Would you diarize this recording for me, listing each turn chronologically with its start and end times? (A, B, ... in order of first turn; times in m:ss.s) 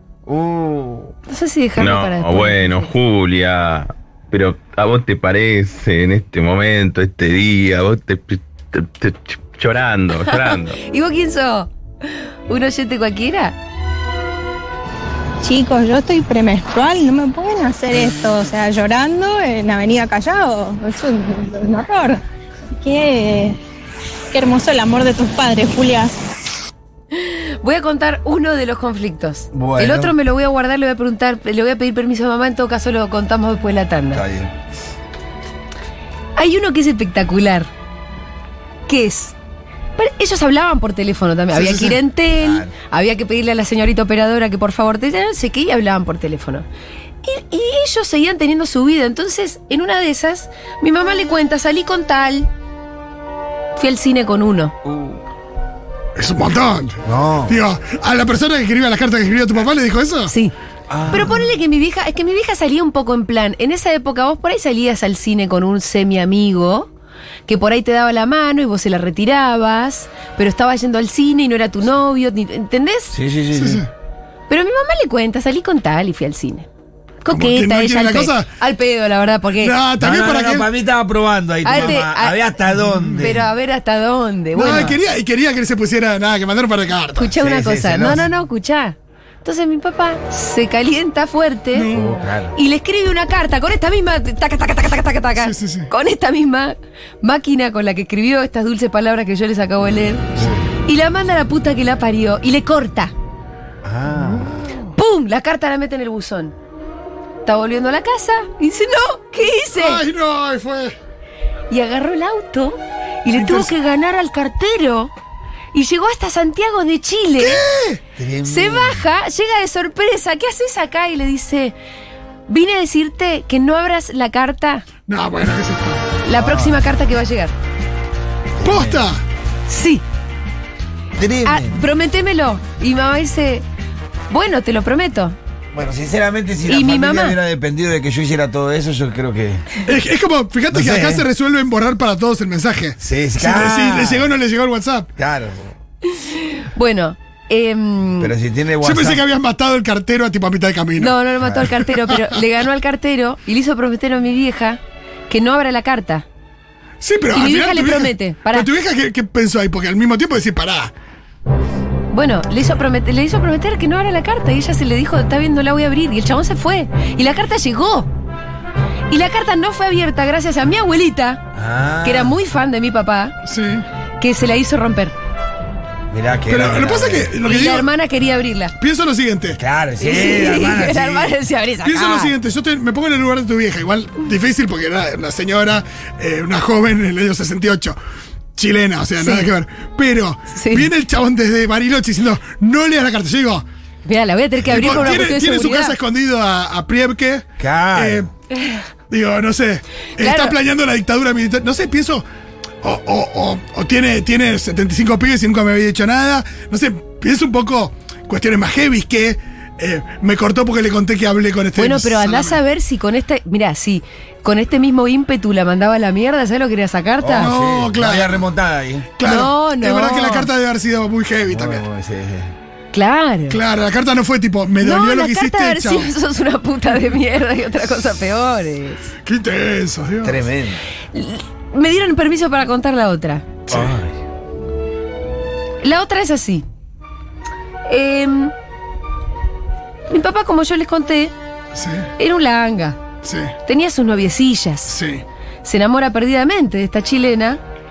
0:00.3-0:01.1 A
0:01.3-0:02.9 B
0:01.8-0:10.8 C
0:10.1-0:11.7 B
0:12.5-0:13.6 B
0:15.4-0:22.2 D
0:22.8-0:23.6 D
0:24.3-0:26.2 D
0:27.1-0:34.2 B
0:29.5-0:30.1 A
0:34.1-0:34.5 A
0:36.4-0:37.7 B
0:38.9-0:39.3 B
0:40.0-0:46.6 B
0:41.5-0:42.0 E
0:42.4-0:42.7 A
0:47.2-0:52.5 B
0:53.8-0:54.7 B
0:54.8-0:55.2 A
0:56.2-1:00.3 E
0:57.0-0:57.6 A
1:00.9-1:01.4 A
1:01.1-1:06.9 B
1:07.5-1:13.1 B
1:13.1-1:13.8 A
1:13.5-1:13.9 E
1:14.5-1:16.7 B
1:17.2-1:19.8 B
1:17.3-1:18.5 E
1:19.6-1:20.7 E
1:20.0-1:23.5 A
1:21.6-1:22.4 B
1:21.7-1:22.0 E
1:22.9-1:23.2 E
1:23.2-1:25.0 B
1:24.5-1:27.3 E
1:27.2-1:31.9 B
1:27.4-1:28.2 A
1:31.7-1:32.3 E
1:31.9-1:32.6 A
1:32.5-1:40.3 B
1:35.4-1:35.9 E
1:40.4-1:40.7 A
1:40.8-1:43.1 B
1:43.8-1:44.7 A
1:44.1-1:44.9 E
1:45.0-1:46.5 B
1:47.4-1:50.0 B
1:49.7-1:51.0 E
1:51.7-1:55.1 B
1:53.3-1:53.7 E
1:55.7-1:57.6 B
1:57.4-1:58.0 E
1:58.2-1:59.0 A
1:58.4-2:01.7 B
2:02.5-2:04.8 B
2:05.1-2:06.1 E
2:06.2-2:07.5 B
2:06.3-2:06.8 A
2:08.6-2:09.0 A
2:08.6-2:09.2 E
2:09.7-2:10.0 B
2:11.2-2:11.7 A
2:11.4-2:13.6 B
2:14.3-2:15.4 B
2:15.7-2:19.7 A
2:16.6-2:17.4 B
2:19.8-2:25.1 E
2:20.7-2:21.2 A
2:23.0-2:24.3 A
2:25.2-2:25.7 A
2:26.0-2:28.3 B
2:28.2-2:29.2 A
2:28.8-2:31.2 E
2:31.0-2:36.2 B
2:31.4-2:31.7 A
2:31.9-2:32.2 E
2:37.0-2:40.9 E
2:37.3-2:38.7 B
2:42.1-2:48.1 B
2:49.1-2:51.4 B
2:51.5-2:52.3 A
2:52.0-2:53.3 B
2:53.4-2:53.8 E
2:54.2-2:55.1 B
2:56.1-2:57.3 A
2:56.5-2:57.9 E
2:57.4-2:58.7 B
2:58.8-2:59.6 E
2:59.5-3:01.4 A
3:00.0-3:02.3 B
3:01.8-3:08.0 E
3:08.5-3:13.6 E
3:09.2-3:09.5 B
3:10.5-3:10.9 B
3:14.0-3:16.0 B
3:14.7-3:18.3 E
3:17.6-3:18.3 A
3:19.1-3:22.2 E
3:20.2-3:20.6 B
3:22.8-3:32.6 E
3:31.8-3:37.5 B
3:37.2-3:39.1 A
3:37.4-3:38.4 E
3:39.2-3:41.8 E
3:39.2-3:40.5 B
3:41.5-3:42.5 A
3:42.9-3:43.6 B
3:43.5-3:46.1 E
3:44.8-3:49.1 B
3:49.2-3:50.4 E
3:50.2-3:50.8 A
3:51.1-3:53.5 B
3:53.7-3:53.9 E
3:53.7-3:54.1 A
3:55.8-3:56.6 B
3:57.9-3:58.5 B
4:00.1-4:01.3 B
4:01.7-4:02.1 E
4:02.2-4:03.0 B
4:03.2-4:03.5 E
4:03.6-4:05.0 B
4:04.9-4:05.2 E
4:05.6-4:07.6 B